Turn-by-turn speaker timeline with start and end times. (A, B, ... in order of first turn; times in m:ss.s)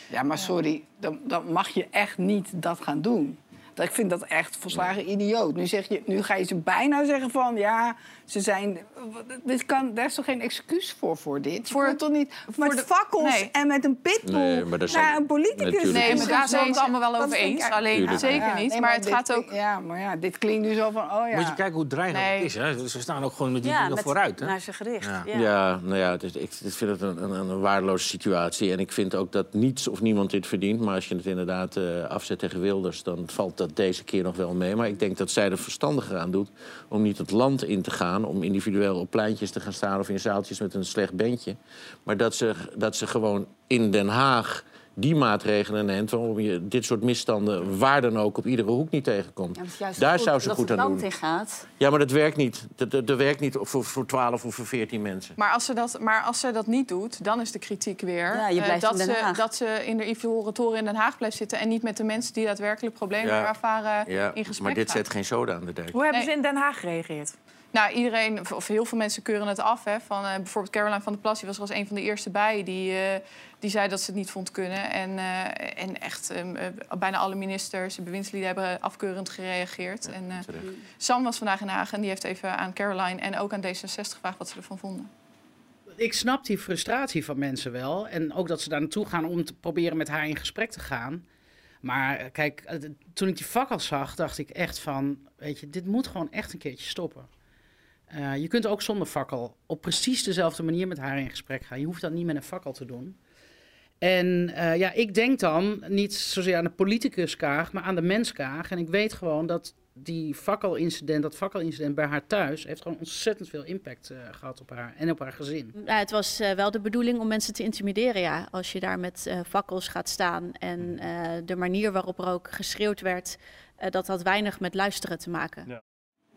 0:00.1-0:21.6 A
0:11.7-0:12.0 B
0:12.6-0:13.4 B
0:14.2-0:16.3 C
0:15.9-0:19.5 B
0:15.9-0:18.3 D
0:18.0-0:18.5 C
0:21.3-0:25.3 E
0:22.1-0:22.5 B
0:23.6-0:25.5 F
0:25.3-0:51.0 C
0:49.6-0:51.6 F
0:51.8-0:55.4 C
0:55.4-1:05.0 B
0:58.3-0:59.4 F
1:03.2-1:03.5 C
1:04.1-1:06.0 C
1:05.9-1:07.3 D
1:07.7-1:20.5 B
1:20.4-1:20.7 C
1:21.0-1:25.1 B
1:26.0-1:31.2 G
1:31.8-1:37.3 G
1:38.1-1:43.2 G
1:44.0-1:55.7 G
1:55.7-2:05.7 H